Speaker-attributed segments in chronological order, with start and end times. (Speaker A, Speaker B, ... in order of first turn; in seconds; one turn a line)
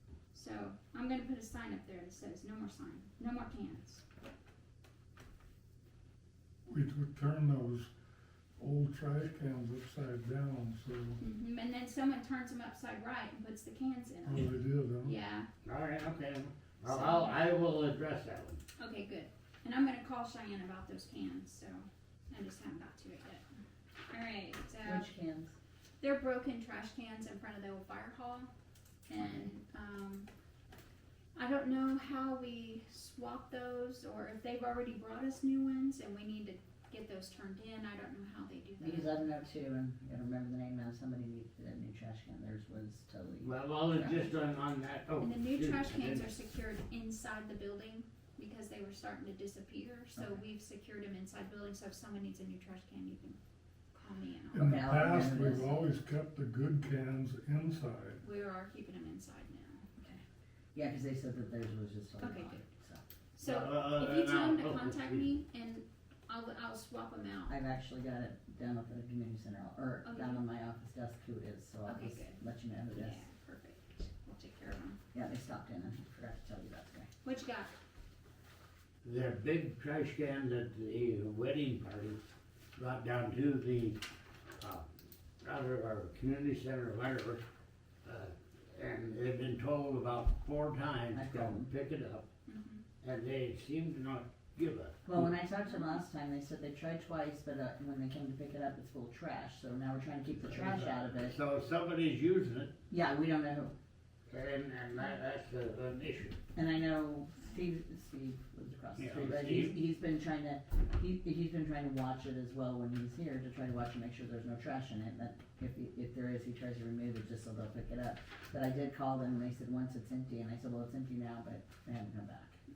Speaker A: 0.3-4.0
Speaker B: 6.7-7.9
Speaker B: 8.6-11.2
Speaker A: 11.2-15.4
Speaker B: 14.2-15.1
Speaker C: 15.6-18.6
Speaker A: 16.8-17.4
Speaker A: 18.8-23.4
Speaker A: 24.1-25.1
Speaker D: 24.8-25.5
Speaker A: 26.0-28.5
Speaker A: 29.1-30.3
Speaker A: 31.3-39.2
Speaker D: 38.8-44.1
Speaker C: 43.4-46.3
Speaker A: 45.2-53.4
Speaker A: 53.9-54.7
Speaker B: 54.5-58.2
Speaker D: 54.6-55.9
Speaker A: 58.2-60.2
Speaker D: 60.7-63.0
Speaker A: 62.2-62.6
Speaker A: 63.4-67.5
Speaker C: 63.4-65.3
Speaker D: 67.5-73.2
Speaker A: 70.0-70.4
Speaker A: 71.8-72.4
Speaker A: 72.9-75.0
Speaker D: 75.1-77.1
Speaker A: 77.2-77.7
Speaker C: 79.0-82.2
Speaker C: 82.8-84.0
Speaker C: 84.6-84.8
Speaker C: 85.4-87.4
Speaker C: 88.0-92.2
Speaker D: 91.1-91.7
Speaker A: 92.5-92.8
Speaker C: 93.0-95.3
Speaker D: 95.0-101.4
Speaker A: 95.7-96.0
Speaker C: 100.4-102.7
Speaker D: 102.9-103.7
Speaker C: 104.3-106.4
Speaker D: 106.5-122.6
Speaker A: 107.4-107.6
Speaker C: 109.0-109.8